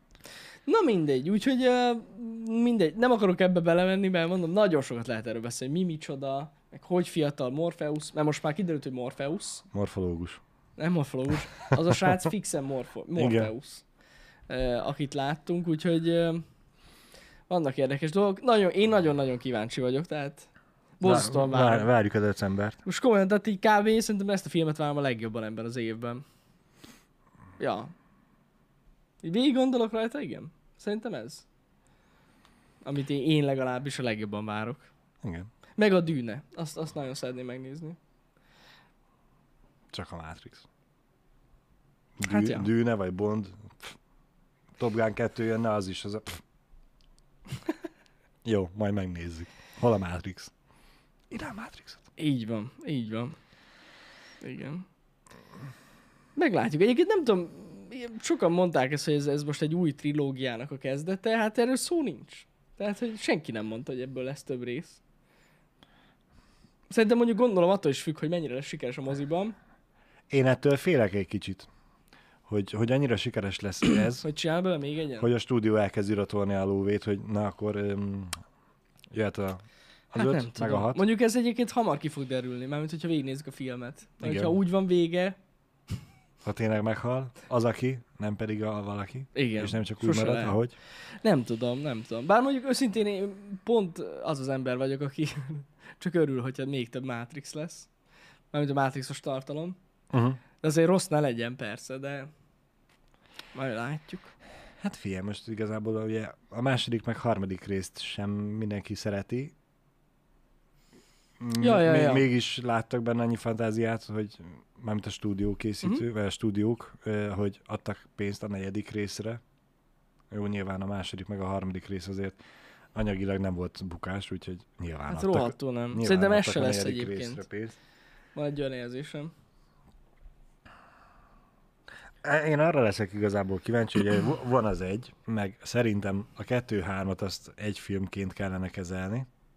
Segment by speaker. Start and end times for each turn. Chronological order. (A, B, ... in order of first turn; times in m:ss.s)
0:00.6-0:09.6 A
0:09.7-0:10.4 B
0:10.8-0:13.8 A
0:11.9-0:12.2 B
0:13.2-0:13.5 B
0:14.5-0:16.4 A
0:17.5-0:20.5 A
0:21.0-0:21.9 A
0:21.0-0:22.8 B
0:22.8-0:26.2 A
0:27.6-0:27.9 A
0:29.2-0:31.4 A
0:32.8-0:34.9 A
0:35.2-0:35.5 B
0:35.8-0:38.0 A
0:39.9-0:40.6 B
0:42.2-0:44.0 B
0:42.2-0:42.7 A
0:44.8-0:46.4 B
0:48.4-0:50.5 B
0:51.3-0:52.0 B
0:52.2-0:53.4 A
0:54.4-0:54.8 A
0:56.4-1:05.0 A
1:06.9-1:09.6 A
1:10.3-1:11.7 B
1:12.5-1:14.2 B
1:14.2-1:15.3 A
1:15.2-1:18.4 B
1:19.1-1:21.0 B
1:20.2-1:25.4 A
1:24.2-1:24.5 B
1:26.4-1:30.7 B
1:29.3-1:30.6 A
1:31.2-1:37.9 A
1:38.5-1:39.8 A
1:40.1-1:40.4 B
1:40.6-1:42.3 A
1:43.5-1:44.3 A
1:44.8-1:49.5 B
1:51.4-1:59.4 B
1:51.6-1:52.3 A
2:00.3-2:02.4 B
2:02.9-2:07.8 B
2:05.1-2:07.4 A
2:08.3-2:09.3 A
2:12.2-2:19.3 B